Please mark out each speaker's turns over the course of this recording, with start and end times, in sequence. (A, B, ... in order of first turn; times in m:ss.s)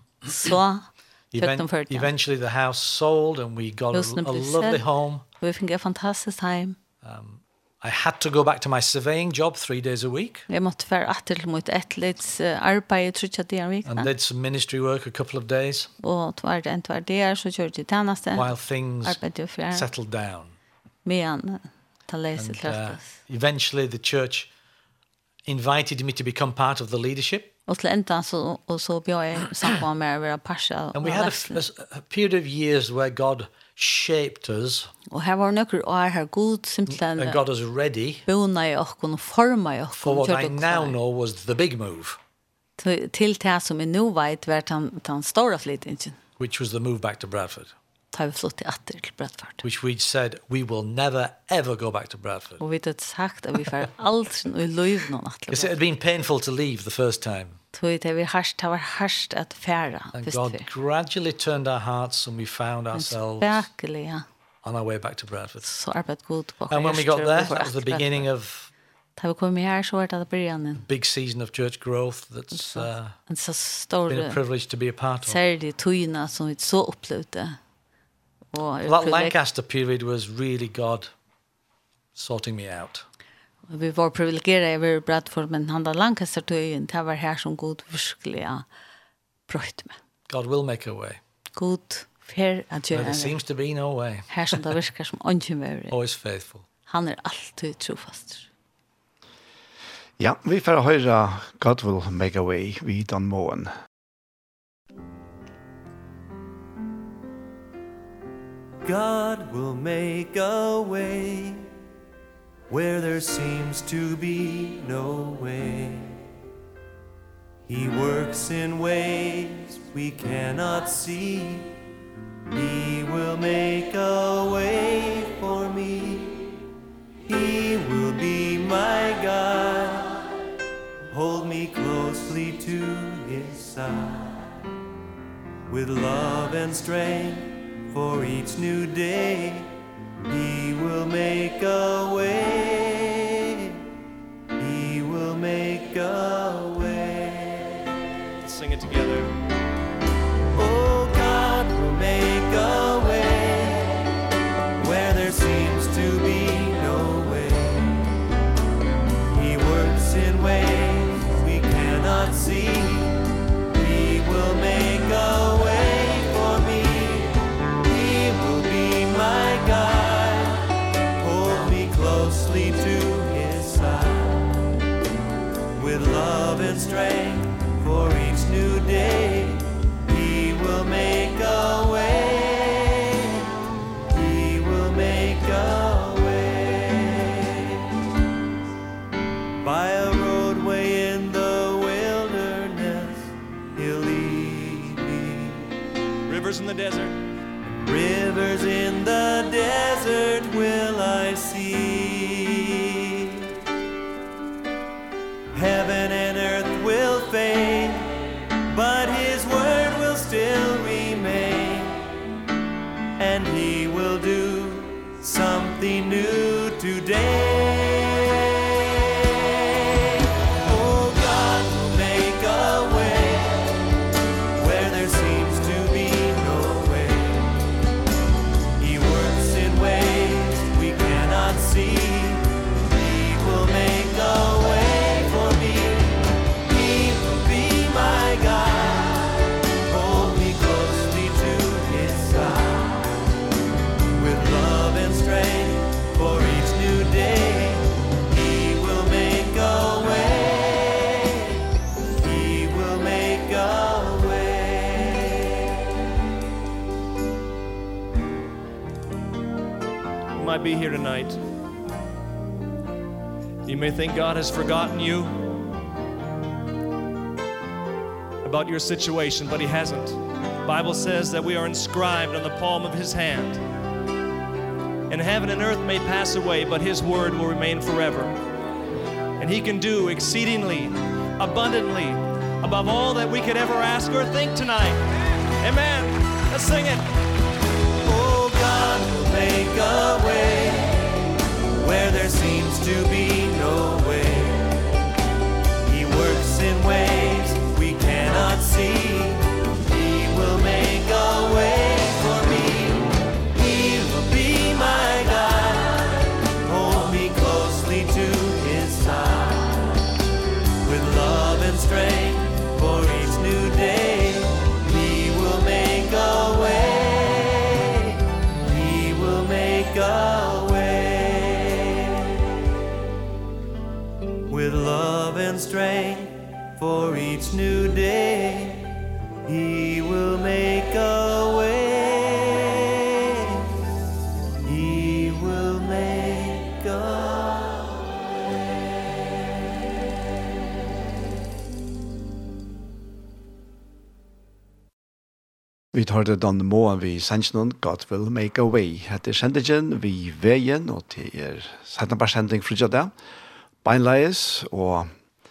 0:00.3-0:02.1 A
0:01.3-0:05.2 B
0:03.9-0:04.8 A
0:05.4-0:06.8 A
0:07.0-0:10.5 B
0:10.5-0:14.1 A
0:13.9-0:15.9 B
0:16.0-0:18.5 A
0:18.4-0:19.2 B
0:19.0-0:19.9 A
0:19.7-0:20.5 B
0:21.0-0:23.1 A
0:22.4-0:24.5 B
0:25.5-0:27.5 B
0:27.7-0:31.6 A
0:30.9-0:34.9 B
0:35.1-0:37.4 A
0:36.9-0:38.2 B
0:38.3-0:41.0 A
0:40.0-0:42.2 B
0:42.8-0:46.2 A
0:46.4-0:47.7 B
0:48.1-0:49.6 A
0:49.6-0:52.6 B
0:52.6-0:55.7 A
0:55.5-0:57.6 B
0:57.7-1:00.7 A
1:00.1-1:03.7 B
1:02.9-1:04.2 A
1:04.6-1:05.7 B
1:05.6-1:08.3 A
1:06.7-1:08.7 B
1:09.2-1:10.8 A
1:10.8-1:13.2 B
1:12.5-1:14.4 A
1:14.1-1:15.4 B
1:15.2-1:17.6 A
1:18.5-1:19.4 A
1:18.8-1:21.1 B
1:22.2-1:23.0 B
1:23.7-1:28.6 A
1:29.5-1:30.0 A
1:30.3-1:31.2 B
1:31.6-1:33.4 A
1:32.9-1:34.6 B
1:34.3-1:36.0 A
1:35.9-1:36.6 B
1:36.9-1:38.5 A
1:40.2-1:43.7 C
1:48.8-1:51.7 D
1:52.7-1:56.2 D
1:57.7-2:01.8 D
2:02.5-2:06.5 D
2:07.3-2:10.3 D
2:11.1-2:14.4 D
2:15.7-2:19.8 D
2:20.3-2:23.8 D
2:24.6-2:27.8 D
2:28.4-2:29.4 E
2:30.6-2:34.1 D
2:34.8-2:38.1 D
2:39.3-2:54.7 D
2:55.8-3:03.5 D
3:04.1-3:07.9 D
3:09.6-3:15.7 D
3:16.3-3:17.2 E
3:17.7-3:23.5 D
3:25.5-3:32.1 D
3:33.2-3:43.9 D
3:44.6-3:47.6 D
3:48.8-4:03.3 D
4:04.1-4:11.5 D
4:12.1-4:15.5 D
4:20.4-4:21.4 E
4:23.6-4:25.6 E
4:28.4-4:33.6 E
4:35.1-4:38.4 E
4:39.4-4:45.0 E
4:45.6-4:47.1 E
4:48.0-4:54.8 D
4:55.8-5:10.0 D
5:10.8-5:22.4 D
5:24.5-5:33.7 D
5:34.6-5:37.9 D
5:45.9-5:53.1 C
5:53.8-5:55.1 C